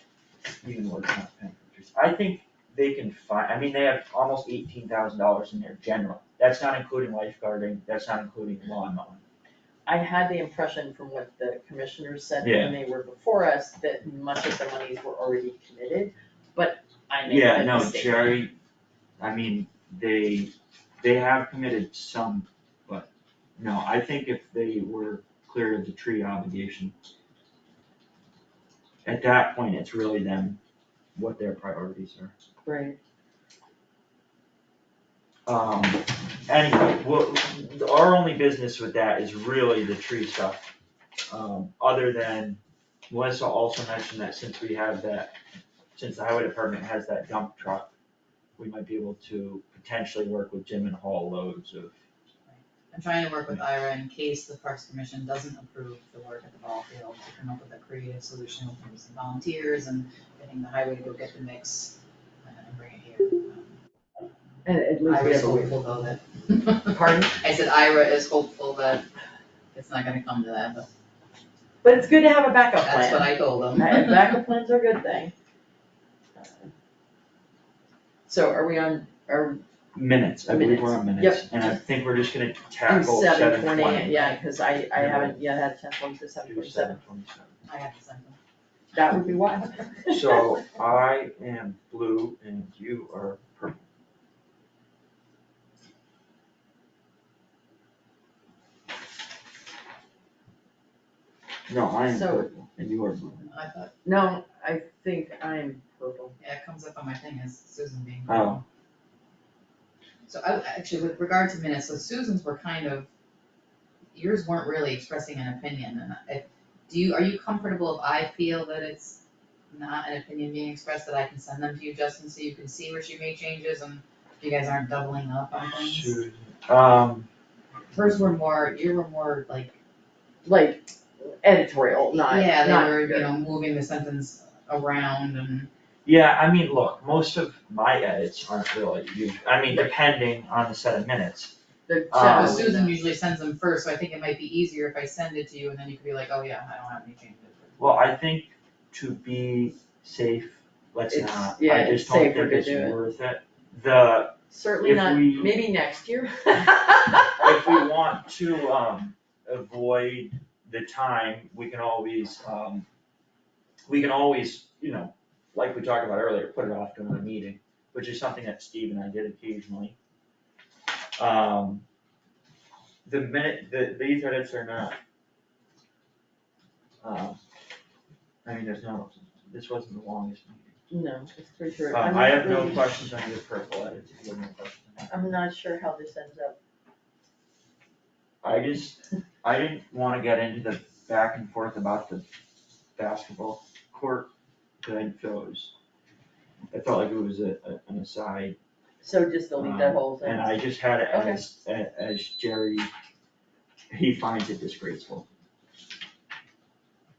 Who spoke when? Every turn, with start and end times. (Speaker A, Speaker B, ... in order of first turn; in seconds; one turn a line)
Speaker A: 0.6-9.2
Speaker B: 9.9-18.4
Speaker A: 12.4-12.8
Speaker A: 17.2-18.6
Speaker A: 19.2-26.9
Speaker A: 29.0-30.6
Speaker A: 31.2-32.3
Speaker B: 32.6-33.0
Speaker A: 35.5-40.7
Speaker A: 41.3-45.4
Speaker A: 46.0-47.9
Speaker A: 48.6-51.9
Speaker C: 52.5-63.7
Speaker B: 64.7-65.8
Speaker C: 65.0-69.0
Speaker B: 66.9-67.3
Speaker C: 69.7-70.9
Speaker B: 71.8-75.3
Speaker C: 72.8-74.3
Speaker B: 76.4-76.7
Speaker B: 78.3-79.6
Speaker A: 80.0-84.3
Speaker B: 80.5-81.8
Speaker B: 82.9-87.0
Speaker A: 85.0-85.4
Speaker A: 86.4-87.6
Speaker C: 87.7-88.4
Speaker B: 88.9-90.4
Speaker A: 90.1-93.8
Speaker A: 101.7-103.4
Speaker B: 102.0-102.5
Speaker C: 103.4-103.9
Speaker B: 104.0-106.4
Speaker C: 106.4-108.6
Speaker A: 108.3-108.6
Speaker C: 110.3-113.1
Speaker C: 114.1-119.2
Speaker C: 119.7-126.2
Speaker A: 125.7-127.3
Speaker C: 127.9-129.8
Speaker B: 130.4-133.3
Speaker C: 132.2-135.7
Speaker A: 136.1-141.5
Speaker B: 141.9-142.9
Speaker A: 142.1-142.7
Speaker C: 142.3-148.0
Speaker A: 147.8-155.7
Speaker B: 151.1-153.0
Speaker B: 154.5-157.8
Speaker A: 157.4-162.9
Speaker A: 163.9-169.9
Speaker A: 171.2-171.8
Speaker A: 173.1-175.0
Speaker A: 177.0-177.4
Speaker A: 178.4-180.7
Speaker B: 180.9-182.9
Speaker A: 181.9-185.1
Speaker B: 185.1-186.6
Speaker A: 188.4-192.3
Speaker A: 193.0-194.3
Speaker A: 194.8-195.7
Speaker A: 196.7-198.6
Speaker B: 199.0-201.4
Speaker A: 199.6-202.9
Speaker A: 203.9-205.3